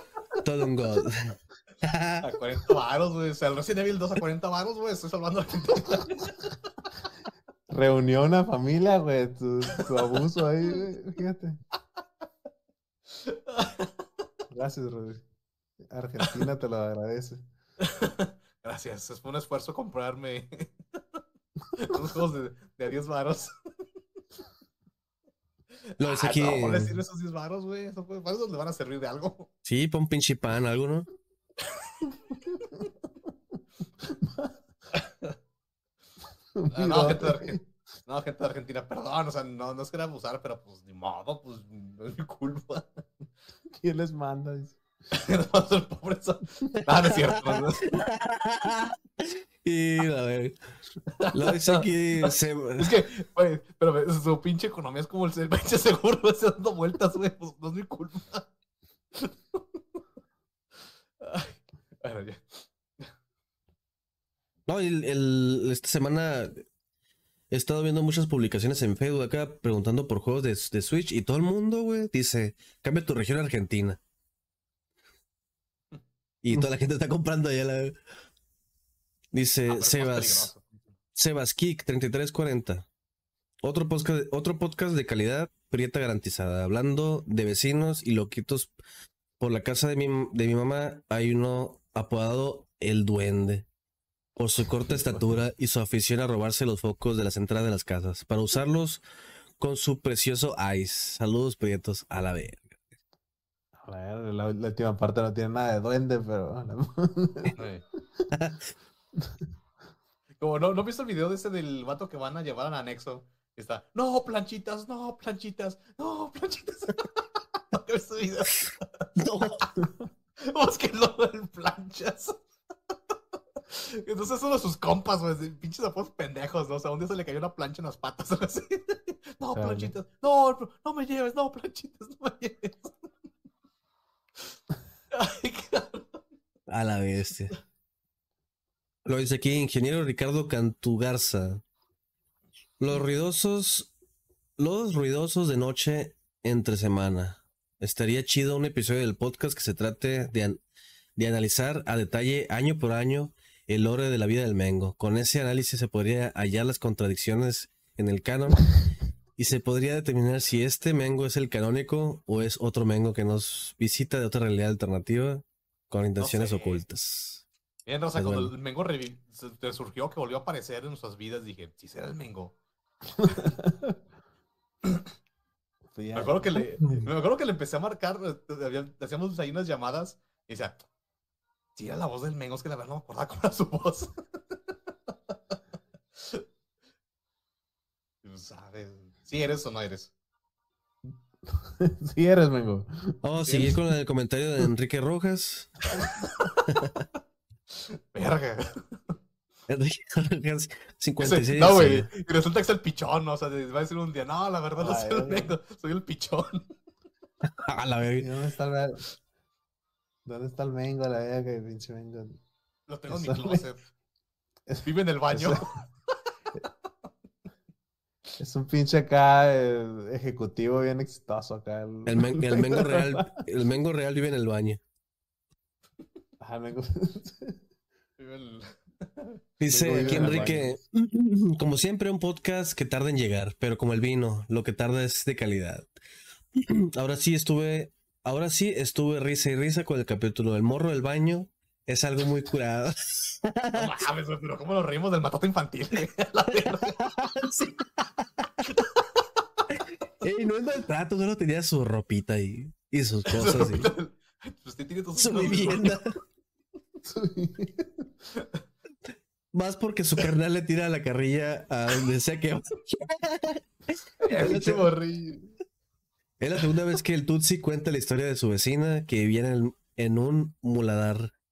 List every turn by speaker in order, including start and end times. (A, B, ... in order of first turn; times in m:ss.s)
0:00.4-0:02.3 A
0:02.2-0:06.3 B
0:07.7-0:11.6 C
0:13.2-0:13.9 B
0:14.5-0:15.2 C
0:15.9-0:17.4 C
0:17.8-0:21.0 B
0:21.8-0:23.5 B
0:26.0-0:29.5 B
0:26.0-0:27.0 A
0:29.6-0:31.1 A
0:31.7-0:32.0 B
0:34.0-0:34.5 C
0:35.0-0:35.3 B
0:36.6-0:37.7 C
0:36.7-0:43.0 B
0:43.8-0:44.8 C
0:45.1-0:47.8 B
0:47.5-0:50.6 A
0:51.2-0:58.5 B
0:51.3-0:53.0 A
0:59.2-0:59.6 B
1:01.2-1:03.0 B
1:04.7-1:06.6 A
1:07.5-1:14.0 A
1:16.4-1:18.0 A
1:19.3-1:20.5 A
1:19.7-1:20.6 B
1:21.2-1:22.9 A
1:23.6-1:28.7 A
1:29.4-1:33.7 A
1:34.4-1:39.0 A
1:39.6-1:42.8 A
1:43.8-1:47.6 C
1:47.6-1:47.8 B
1:48.3-1:48.6 A
1:50.4-1:59.1 B
1:59.2-1:59.6 A
2:00.4-2:02.4 B
2:03.7-2:13.0 B
2:09.5-2:09.9 C
2:15.1-2:16.2 B
2:16.7-2:17.5 A
2:19.0-2:21.6 A
2:22.8-2:23.9 A
2:24.6-2:30.6 A
2:31.2-2:38.7 A
2:39.4-2:47.4 A
2:46.2-2:46.8 B
2:47.9-2:52.5 B
2:48.2-2:48.5 A
2:53.2-2:54.0 C
2:55.9-2:57.1 C
2:56.2-3:00.8 B
3:01.8-3:04.1 B
3:06.2-3:06.4 B
3:08.2-3:10.1 B
3:11.4-3:13.7 C
3:13.2-3:15.8 A
3:13.5-3:13.7 B
3:18.1-3:18.7 B
3:19.7-3:22.1 A
3:21.2-3:26.6 B
3:24.8-3:25.5 C
3:27.6-3:28.3 A
3:28.2-3:29.0 C
3:30.3-3:32.4 C
3:32.9-3:33.8 B
3:33.1-3:33.7 C
3:34.7-3:35.6 C
3:34.8-3:35.7 B
3:38.4-3:43.4 C
3:42.1-3:44.8 A
3:46.4-3:47.6 C
3:48.2-3:50.5 B
3:49.6-3:55.9 A
3:49.7-3:50.8 C
3:56.6-4:04.0 A
4:03.7-4:07.0 B
4:06.6-4:07.9 A
4:10.2-4:13.9 A
4:13.3-4:16.0 B
4:15.2-4:16.2 A
4:17.0-4:18.1 C
4:19.5-4:23.6 A
4:24.2-4:25.0 B
4:24.4-4:24.8 A
4:24.5-4:25.5 C
4:26.4-4:31.3 A